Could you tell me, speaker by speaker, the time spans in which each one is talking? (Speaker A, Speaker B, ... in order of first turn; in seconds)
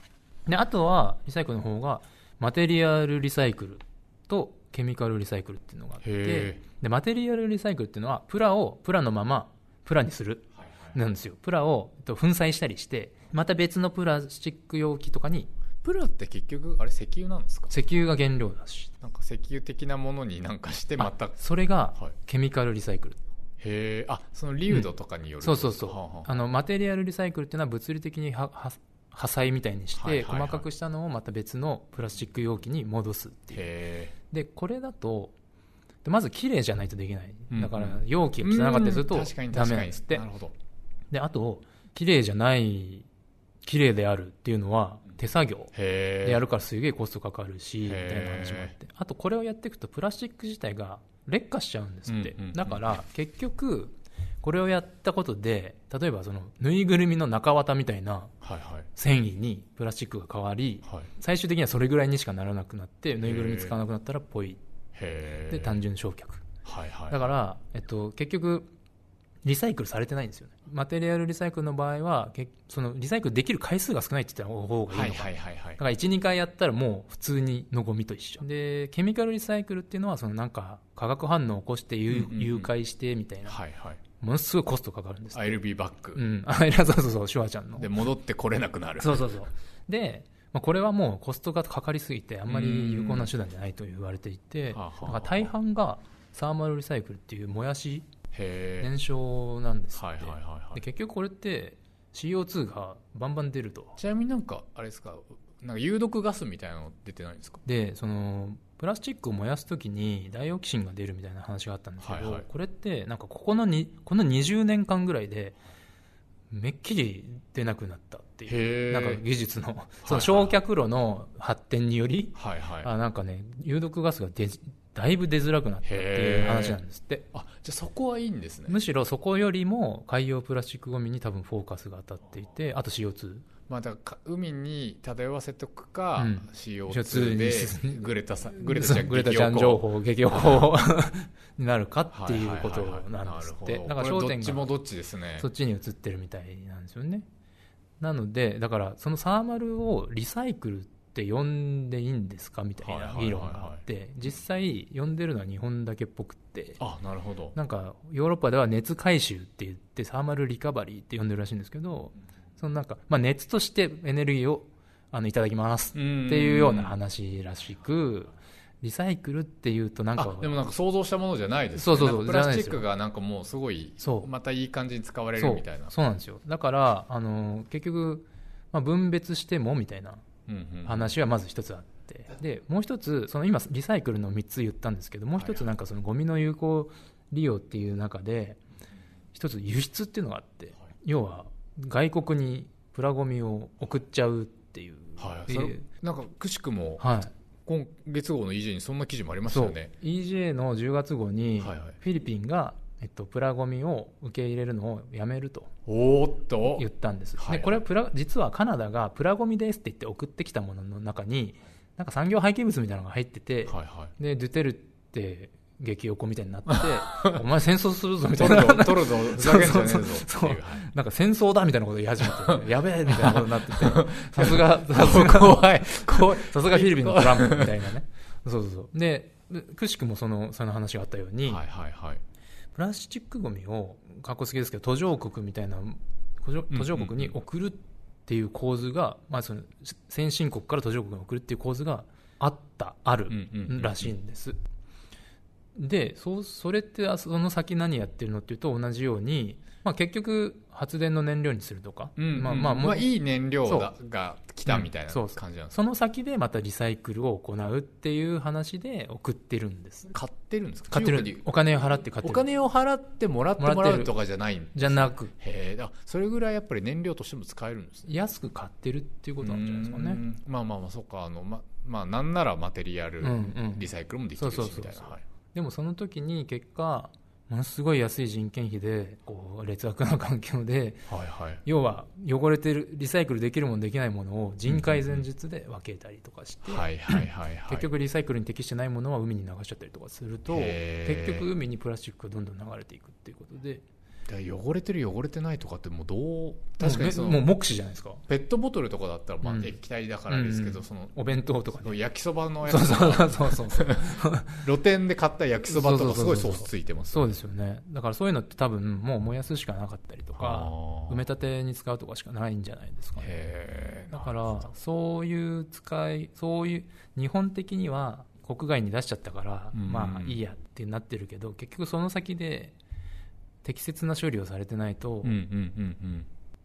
Speaker A: 0.5-15.5, 17.7-18.9, 21.0-23.2, 25.4-33.6, 34.3-35.3, 36.0-40.2, 41.1-43.0, 43.6-45.7, 46.2-58.3, 58.9-64.6, 65.5-66.4, 67.1-68.7, 69.4-83.6, 84.2-85.6, 86.1-87.9, 89.0-98.1, 98.8-104.0, 107.6-115.6, 116.5-127.2, 128.7-133.4, 136.2-144.7, 145.4-147.2, 148.0-156.8, 157.5-170.5, 171.7-172.8, 174.0-174.3, 175.4-180.2, 180.8-188.6, 189.3-195.8, 197.0-197.3, 199.5-205.7, 206.6-231.6, 232.7-244.6, 245.8-253.1, 253.6-253.9, 254.7-260.1, 260.9-262.4, 263.6-264.1, 264.7-265.3, 268.1-270.2, 273.2-281.1, 281.6-293.8, 296.8-298.2, 299.4-299.8, 300.3-301.9, 302.6-304.6, 305.6-313.4, 314.1-322.7, 323.6-325.4
Speaker B: 6.0-6.6, 15.8-17.7, 19.0-21.4, 23.6-26.3, 30.0-30.6, 33.5-34.1, 37.5-40.5, 45.7-46.5, 47.8-48.7, 52.1-52.8, 58.4-58.9, 63.2-63.8, 64.9-65.8, 66.6-67.2, 74.9-75.8, 82.1-82.7, 83.5-84.0, 85.3-86.2, 87.8-89.3, 92.5-93.3, 94.7-95.5, 98.3-98.9, 100.0-100.8, 104.0-107.6, 112.0-112.5, 118.5-119.2, 120.0-120.6, 122.3-122.9, 125.8-126.8, 127.3-128.8, 133.7-140.7, 142.1-145.5, 152.8-153.8, 156.8-157.5, 165.9-166.9, 170.2-175.9, 180.5-181.2, 185.4-185.6, 195.2-197.0, 197.7-199.9, 201.6-201.9, 205.8-206.8, 207.4-207.8, 213.7-214.1, 216.8-217.4, 218.3-220.9, 223.1-227.8, 231.5-232.2, 236.7-237.3, 243.3-244.1, 252.2-255.7, 260.1-261.4, 262.2-268.1, 269.4-275.2, 281.1-281.6, 284.7-285.2, 286.6-287.9, 290.5-291.5, 294.3-297.4, 298.3-301.2, 301.8-307.4, 310.4-311.2, 313.2-314.7, 319.7-320.4, 325.2-326.3